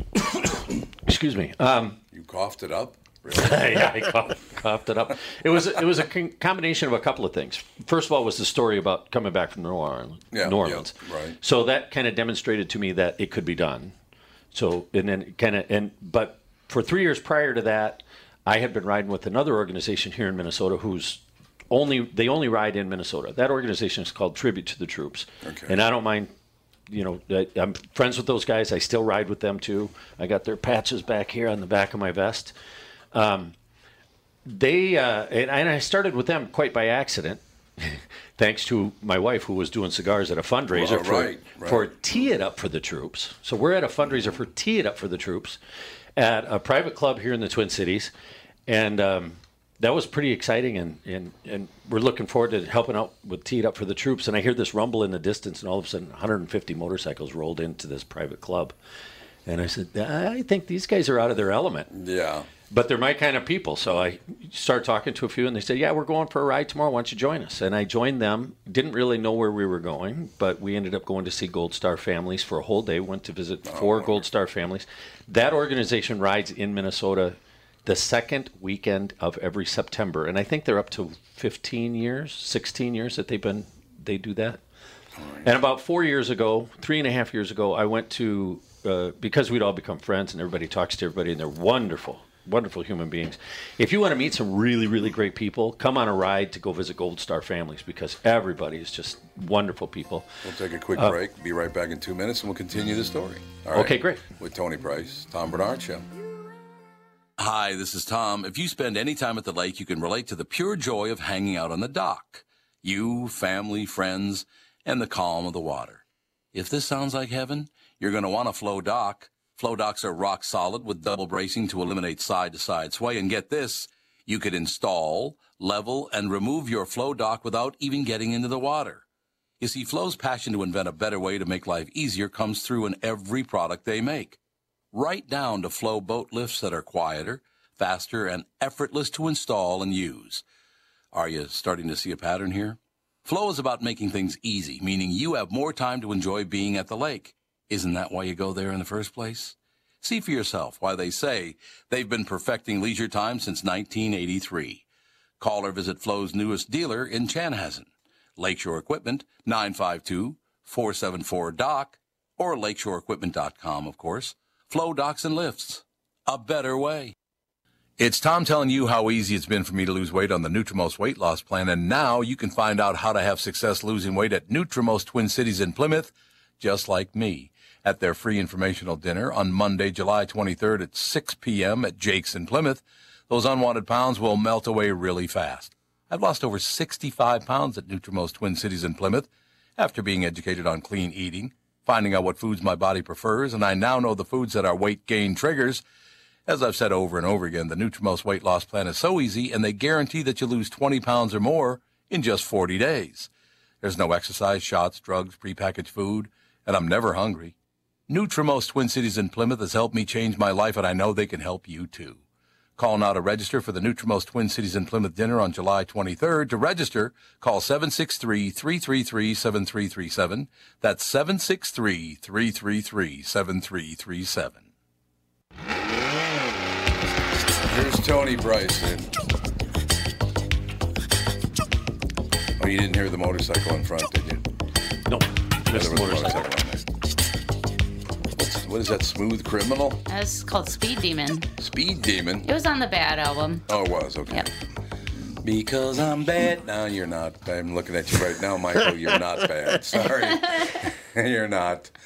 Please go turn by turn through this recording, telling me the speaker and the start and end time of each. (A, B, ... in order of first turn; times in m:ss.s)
0:01.1-0:02.0 A
0:02.1-0:04.1 B
0:03.3-0:13.9 A
0:10.3-0:11.4 B
0:14.5-0:26.3 A
0:25.4-0:25.8 B
0:26.9-0:32.5 A
0:33.1-0:33.5 A
0:34.5-0:45.6 A
0:40.7-0:42.0 B
0:46.2-0:48.1 A
0:48.7-0:58.8 A
0:59.5-1:01.9 A
1:01.9-1:02.5 B
1:02.7-1:24.6 A
1:13.6-1:14.2 B
1:25.2-1:25.5 B
1:25.4-1:40.3 A
1:40.4-1:46.1 B
1:43.7-1:44.2 A
1:47.4-2:09.0 B
2:09.6-2:14.4 B
2:14.9-2:20.4 B
2:21.1-2:34.8 B
2:35.4-2:47.2 B
2:48.0-3:15.8 B
3:16.5-3:23.3 B
3:23.8-3:27.6 B
3:28.1-3:32.2 B
3:32.8-3:44.6 B
3:47.7-3:49.1 B
3:52.6-3:54.4 B
3:55.1-3:56.4 A
3:55.7-3:56.9 B
3:58.3-4:00.0 B
4:00.1-4:01.5 C
4:01.6-4:02.5 B
4:02.4-4:03.7 C
4:03.7-4:04.5 B
4:05.4-4:11.9 B